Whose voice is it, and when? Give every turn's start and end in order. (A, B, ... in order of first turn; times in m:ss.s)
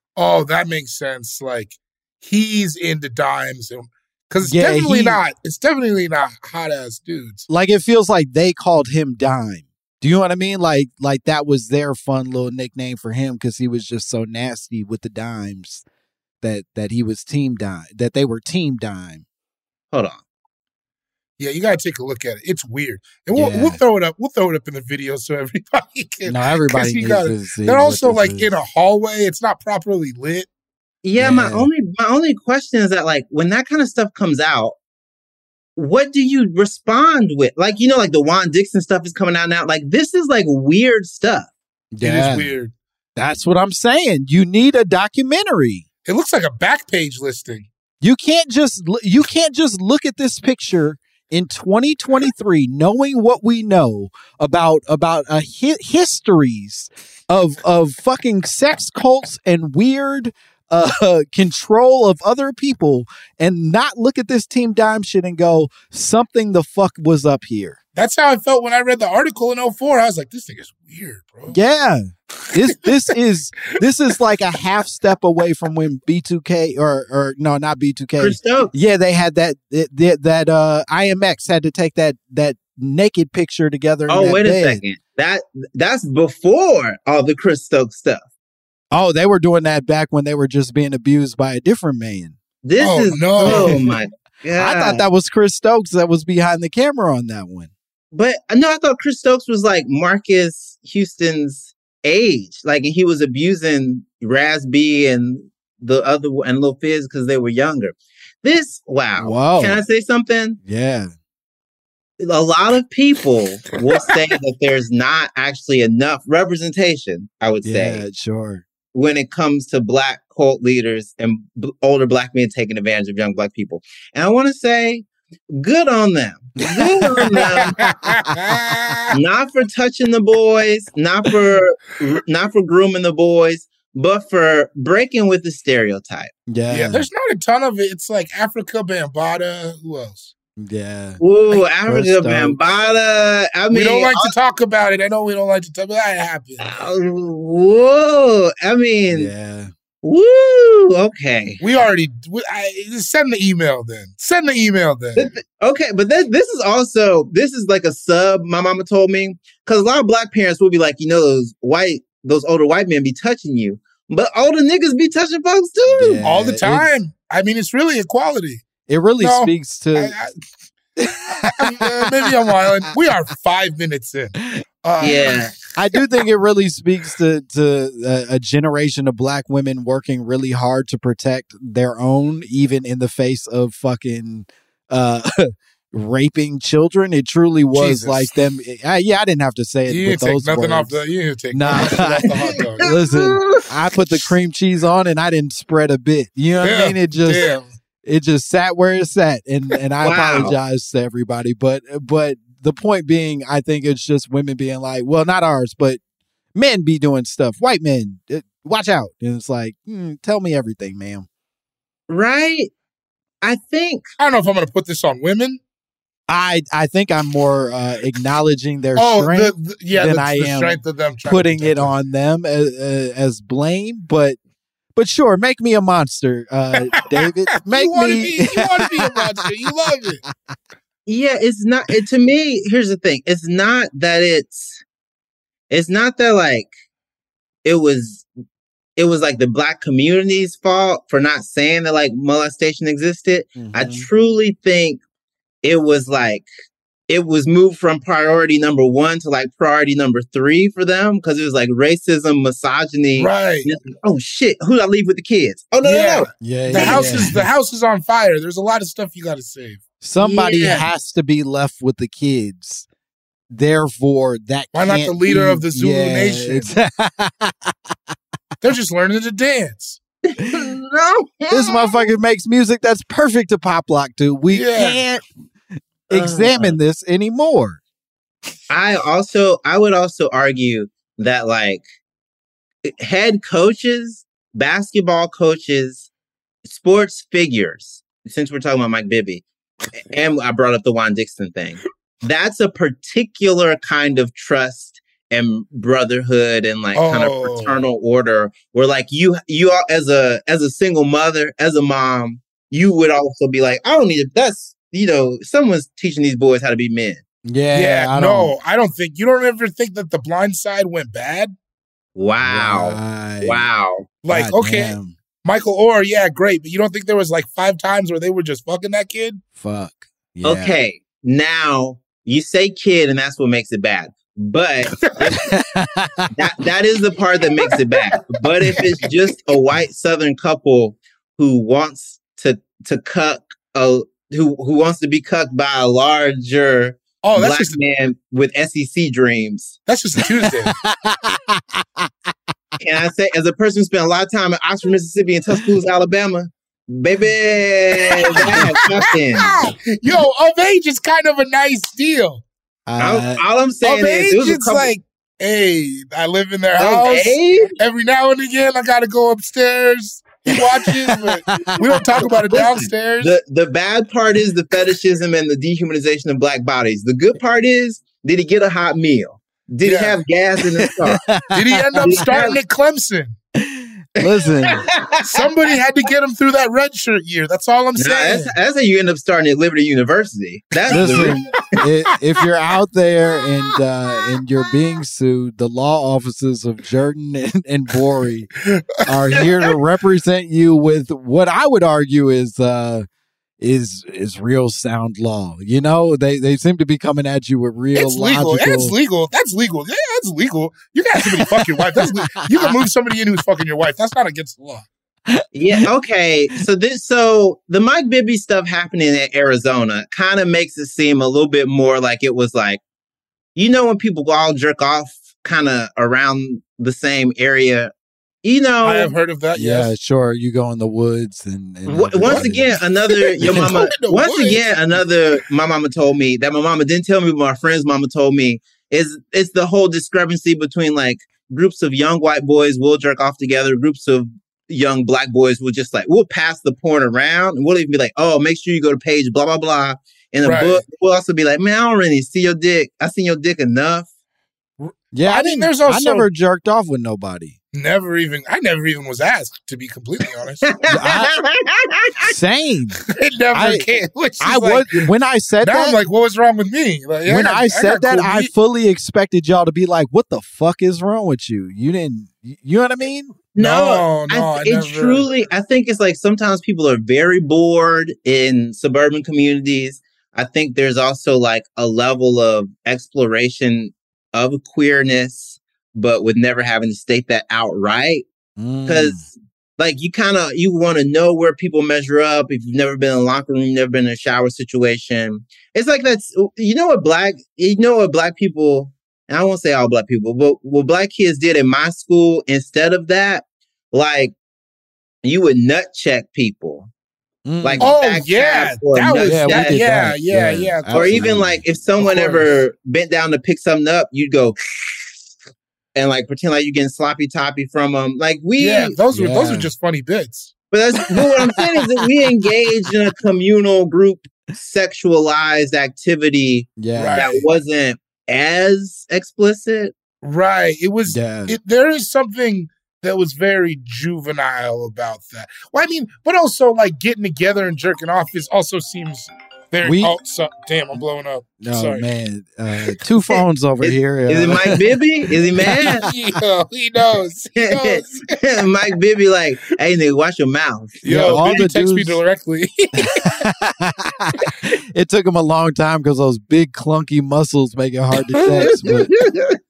0:00.2-0:07.4 A
0:04.4-0:05.2 B
0:07.5-0:15.8 B
0:16.4-0:19.2 B
0:19.9-0:20.2 C
0:21.4-0:30.5 A
0:23.3-0:23.8 B
0:26.2-0:28.5 B
0:31.0-0:34.8 C
0:31.2-0:31.7 B
0:35.8-0:41.5 C
0:41.9-0:42.5 B
0:42.0-0:42.7 A
0:43.2-0:45.8 B
0:46.0-0:47.7 A
0:48.0-1:07.8 B
1:07.9-1:11.6 A
1:11.5-1:24.8 B
1:18.2-1:18.7 C
1:24.1-1:28.2 C
1:28.9-1:32.4 B
1:32.6-1:35.0 C
1:32.8-1:34.0 A
1:33.4-1:33.8 B
1:34.6-1:37.7 B
1:38.1-1:50.6 C
1:49.2-1:49.8 B
1:50.6-1:51.1 B
1:52.2-1:58.0 C
1:57.6-1:58.6 B
1:58.9-2:07.8 C
2:06.8-2:07.2 B
2:07.6-2:09.2 A
2:09.1-2:16.3 C
2:16.5-2:17.0 B
2:16.7-2:20.3 A
2:20.6-2:22.6 B
2:21.2-2:24.3 C
2:23.7-2:26.6 A
2:26.6-2:29.3 C
2:29.1-2:29.7 B
2:30.0-2:31.6 C
2:31.6-2:35.3 A
2:35.2-2:46.2 C
2:45.9-2:46.9 B
2:46.2-2:50.3 A
2:48.9-2:50.1 B
2:51.0-2:52.1 B
2:51.6-2:55.5 A
2:55.0-2:55.5 C
2:55.7-3:10.9 B
3:07.7-3:08.3 A
3:09.9-3:12.9 A
3:11.5-3:17.5 B
3:11.9-3:12.5 C
3:13.1-3:13.6 C
3:16.6-3:17.7 A
3:18.0-3:26.0 B
3:20.0-3:20.5 C
3:26.5-3:31.3 B
3:32.1-3:32.7 C
3:33.4-3:34.0 C
3:34.2-3:35.6 A
3:36.3-3:44.4 B
3:39.0-3:41.9 A
3:44.9-3:49.4 B
3:47.6-3:50.2 A
3:51.0-3:54.8 C
3:55.7-3:56.7 C
3:57.6-3:58.3 C
3:59.0-4:05.0 C
4:03.5-4:04.1 B
4:05.6-4:06.5 C
4:07.1-4:17.2 C
4:13.1-4:13.7 A
4:15.8-4:20.9 A
4:16.4-4:17.5 B
4:20.0-4:22.9 B
4:23.5-4:27.9 B
4:24.7-4:26.7 A
4:28.6-4:30.0 A
4:30.3-4:32.0 C
4:31.5-4:35.2 B
4:34.5-4:35.0 A
4:36.1-4:37.8 B
4:36.1-4:36.8 C
4:38.7-4:41.8 C
4:42.9-4:46.1 C
4:46.6-4:49.4 C
4:50.1-5:07.2 C
4:56.9-4:57.8 A
5:07.4-5:08.5 B
5:07.7-5:11.5 A
5:12.1-5:14.1 C
5:12.4-5:13.7 B
5:14.2-5:19.4 A
5:14.3-5:15.1 B
5:19.5-5:20.8 B
5:20.4-5:25.4 C
5:25.3-5:26.3 B
5:26.3-5:39.8 C
5:37.2-5:37.8 A
5:39.8-5:40.7 A
5:40.7-5:42.1 B
5:42.8-5:49.5 C
5:48.1-5:52.4 A
5:52.9-5:53.4 B
5:53.0-5:54.9 C
5:53.8-6:03.3 A
5:56.8-5:57.7 C
6:01.0-6:01.8 B
6:02.2-6:11.2 C
6:09.8-6:10.2 A
6:11.0-6:12.4 B
6:11.5-6:13.4 A
6:12.0-6:12.6 C
6:13.6-6:14.8 B
6:14.7-6:15.4 C
6:15.2-6:18.5 A
6:18.0-6:21.3 C
6:20.9-6:21.3 A
6:20.9-6:28.5 B
6:29.0-6:33.0 B
6:29.3-6:29.7 A
6:33.6-6:38.9 B
6:37.9-6:44.8 A
6:41.3-6:42.8 B
6:45.3-6:45.8 B
6:45.5-6:52.8 C
6:53.5-6:57.9 C
6:58.4-6:59.1 C
6:58.8-6:59.9 A
6:59.5-7:02.7 B
7:01.8-7:24.1 C
7:02.2-7:04.6 A
7:03.4-7:03.7 B
7:20.4-7:20.8 A
7:24.8-7:26.3 A
7:25.1-7:27.6 B
7:27.7-7:31.0 A
7:30.7-7:32.3 C
7:30.9-7:31.3 B
7:32.3-7:33.0 B
7:33.0-7:35.1 A
7:33.5-7:36.0 B
7:35.6-7:38.5 A
7:37.2-7:43.4 B
7:43.5-7:58.2 C
7:43.6-7:45.3 A
7:58.6-7:59.2 B
7:58.8-8:14.3 C
8:15.2-8:16.9 C
8:17.4-8:17.9 B
8:17.6-8:19.8 C
8:17.8-8:21.4 A
8:19.2-8:21.6 B
8:20.9-8:24.6 C
8:22.0-8:22.4 A
8:25.9-8:28.9 C
8:28.6-8:30.5 A
8:29.1-8:29.7 B
8:30.7-8:39.9 C
8:36.8-8:37.3 B
8:37.0-8:37.4 A
8:40.2-8:52.1 A
8:41.1-8:41.5 B
8:49.8-8:50.2 B
8:51.6-8:54.8 B
8:53.8-8:56.1 C
8:55.6-8:55.9 B
8:55.8-8:58.2 A
8:57.6-9:01.0 C
9:01.0-9:03.2 A
9:01.0-9:02.2 B
9:03.2-9:09.1 B
9:08.6-9:09.6 C